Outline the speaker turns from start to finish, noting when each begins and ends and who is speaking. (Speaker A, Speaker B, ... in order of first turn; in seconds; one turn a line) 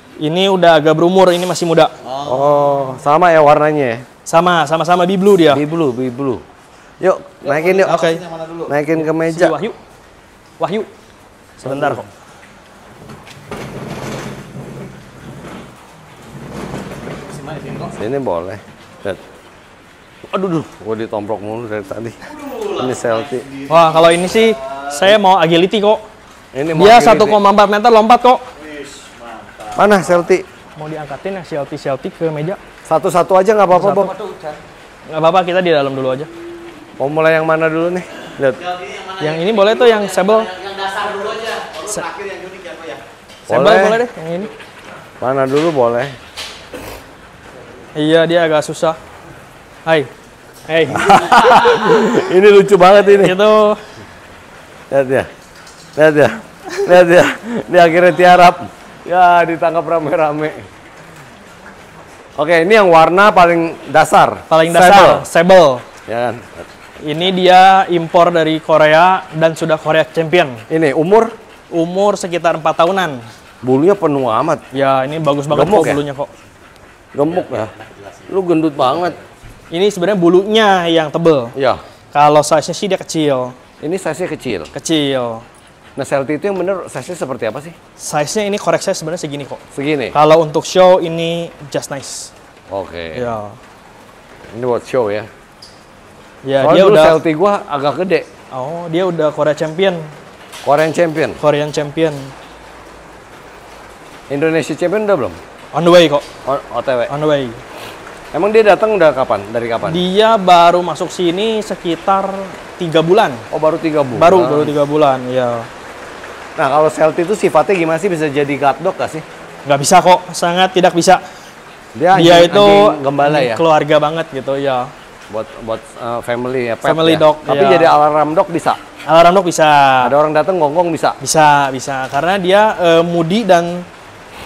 Speaker A: 0.2-1.9
Speaker B: 2.0-2.6
Speaker C: 2.2-4.0
Speaker A: 4.3-5.6
Speaker C: 5.5-6.4
Speaker C: 7.0-8.0
Speaker B: 7.4-8.7
Speaker A: 7.8-8.2
Speaker C: 8.7-9.6
Speaker A: 9.0-9.8
Speaker A: 10.6-10.9
Speaker A: 11.6-12.1
Speaker C: 11.7-12.0
Speaker B: 17.1-17.9
Speaker C: 17.9-19.2
Speaker C: 20.3-22.2
Speaker B: 22.3-24.8
Speaker C: 22.7-23.5
Speaker A: 23.7-26.0
Speaker C: 26.5-27.4
Speaker A: 26.8-28.4
Speaker B: 28.6-30.0
Speaker C: 29.8-30.4
Speaker A: 30.8-32.6
Speaker C: 32.9-34.4
Speaker A: 33.7-34.1
Speaker A: 35.1-36.3
Speaker C: 37.0-38.6
Speaker B: 38.6-43.0
Speaker A: 39.2-40.5
Speaker A: 43.5-44.5
Speaker C: 43.5-44.0
Speaker C: 45.2-46.1
Speaker A: 48.0-49.0
Speaker A: 50.7-52.1
Speaker C: 50.9-53.4
Speaker A: 53.2-53.8
Speaker C: 54.9-55.3
Speaker C: 56.0-60.6
Speaker C: 62.4-65.3
Speaker A: 64.5-65.8
Speaker C: 66.1-66.7
Speaker A: 67.0-70.6
Speaker C: 70.7-71.3
Speaker A: 71.7-73.2
Speaker C: 73.6-74.6
Speaker A: 74.7-76.3
Speaker C: 75.5-76.0
Speaker C: 77.1-77.7
Speaker B: 77.4-78.3
Speaker C: 78.3-79.2
Speaker A: 79.7-81.5
Speaker C: 81.6-81.8
Speaker A: 82.1-83.5
Speaker C: 83.8-84.7
Speaker A: 84.7-85.5
Speaker C: 86.0-87.8
Speaker A: 88.0-89.6
Speaker C: 89.7-90.2
Speaker A: 90.1-92.3
Speaker C: 92.7-93.3
Speaker A: 93.2-93.6
Speaker C: 94.5-95.3
Speaker A: 96.5-97.2
Speaker C: 96.6-98.3
Speaker A: 98.5-100.1
Speaker C: 100.6-101.4
Speaker A: 101.4-102.3
Speaker C: 104.3-105.4
Speaker A: 105.7-106.3
Speaker C: 106.5-107.1
Speaker A: 107.1-107.6
Speaker C: 108.3-110.0
Speaker A: 109.9-113.5
Speaker C: 113.5-114.8
Speaker A: 114.2-115.7
Speaker C: 116.6-119.2
Speaker A: 119.7-121.2
Speaker C: 122.0-123.6
Speaker A: 122.1-124.9
Speaker C: 125.3-128.8
Speaker A: 126.8-127.9
Speaker A: 129.1-130.1
Speaker C: 130.0-131.2
Speaker A: 131.2-133.9